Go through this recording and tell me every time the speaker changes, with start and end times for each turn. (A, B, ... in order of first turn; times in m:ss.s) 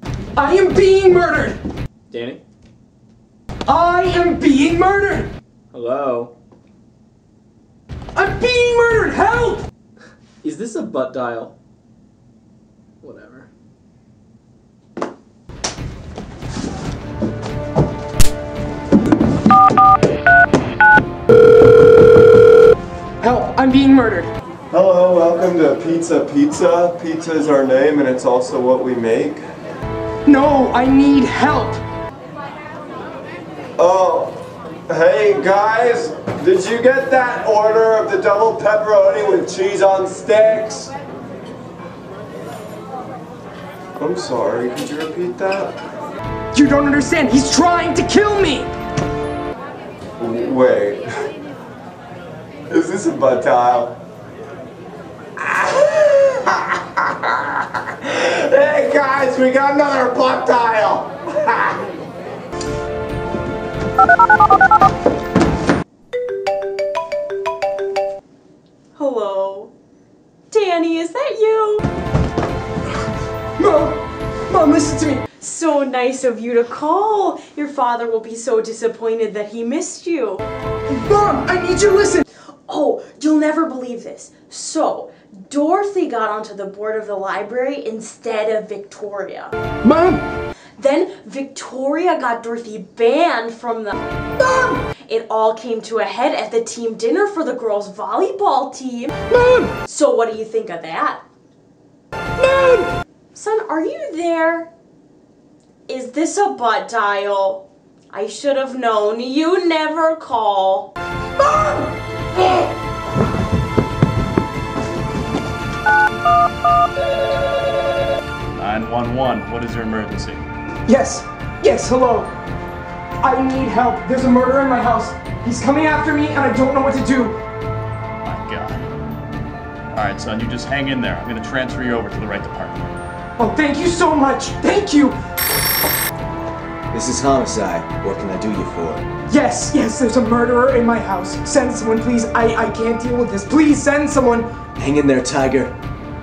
0:00.4-0:01.6 A
0:02.1-0:02.4 B
0:03.7-0:05.3 A
0:05.7-0:06.3 B
0:08.2-0:09.7 A
0:10.4-0:11.5 B
0:13.0-0:13.5 B
0:23.2-0:24.3 A
0:24.7-0:29.4 C
0:30.3-0:31.8 A
0:33.8-0:40.9 C
0:44.0-0:45.8 C
0:46.5-0:48.7 A
0:50.2-0:51.3 C
0:52.7-0:54.0 C
0:55.4-1:01.8 C
1:09.0-1:09.7 D
1:10.5-1:11.9 D
1:13.6-1:15.2 A
1:15.3-1:20.5 D
1:20.9-1:22.3 A
1:22.7-1:29.6 D
1:29.8-1:30.3 A
1:30.8-1:34.0 D
1:34.4-1:34.8 A
1:34.9-1:39.2 D
1:39.3-1:39.7 A
1:39.8-1:41.2 D
1:42.4-1:42.9 A
1:43.3-1:44.7 D
1:45.9-1:50.9 D
1:58.5-2:00.4 E
2:00.9-2:02.3 A
2:03.2-2:07.4 A
2:08.2-2:08.9 E
2:09.9-2:12.9 E
2:13.4-2:15.2 A
2:16.9-2:19.1 F
2:19.3-2:24.5 A
2:24.8-2:25.8 F